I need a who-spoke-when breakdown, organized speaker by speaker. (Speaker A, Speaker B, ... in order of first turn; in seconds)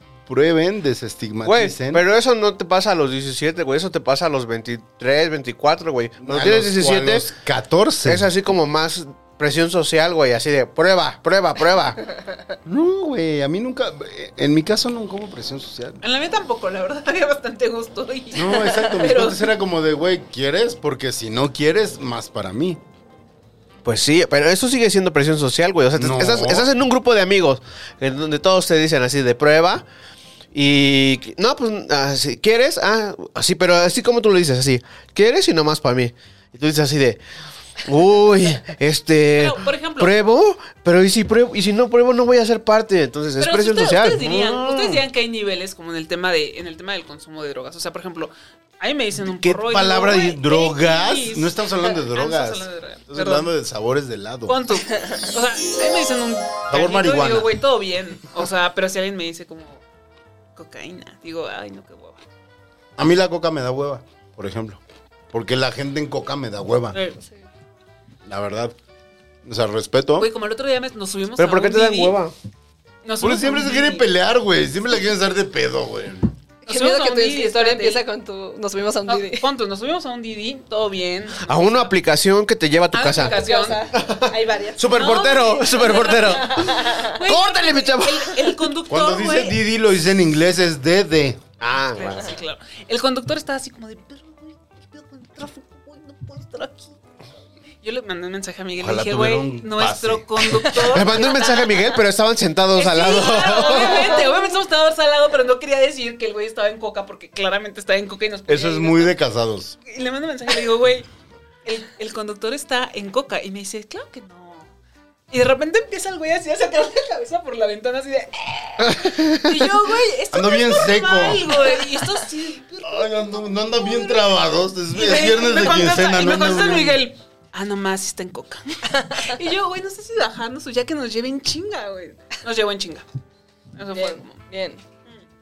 Speaker A: 0.2-2.0, 6.2-8.3, 12.7-16.0, 18.3-22.8, 25.9-26.7, 44.2-44.8, 49.2-54.6, 56.7-57.5, 63.0-67.0, 68.2-68.7, 69.4-70.3, 73.2-76.3, 88.9-91.4, 98.8-100.9, 108.5-109.8, 120.3-121.6, 122.8-127.0
Speaker B: 1.4-7.3, 8.0-12.0, 23.8-29.8, 30.5-37.2, 37.8-44.7, 71.4-72.3, 81.4-88.6, 91.6-92.3, 100.7-104.2, 118.8-119.5
Speaker C: 16.0-19.5, 39.3-40.1, 43.4-53.5, 54.5-59.8, 60.5-62.2, 66.9-67.2, 70.2-72.2, 73.0-74.1, 76.7-78.0, 79.1-81.9, 82.9-83.8, 84.8-89.6, 91.7-97.0, 97.8-102.0, 102.7-109.1, 109.8-111.1, 111.6-114.7, 115.3-124.2, 124.9-133.1, 133.8-134.3
Speaker D: 76.7-79.5, 83.1-85.0, 86.2-87.2, 103.4-104.5, 128.9-129.3, 133.9-134.8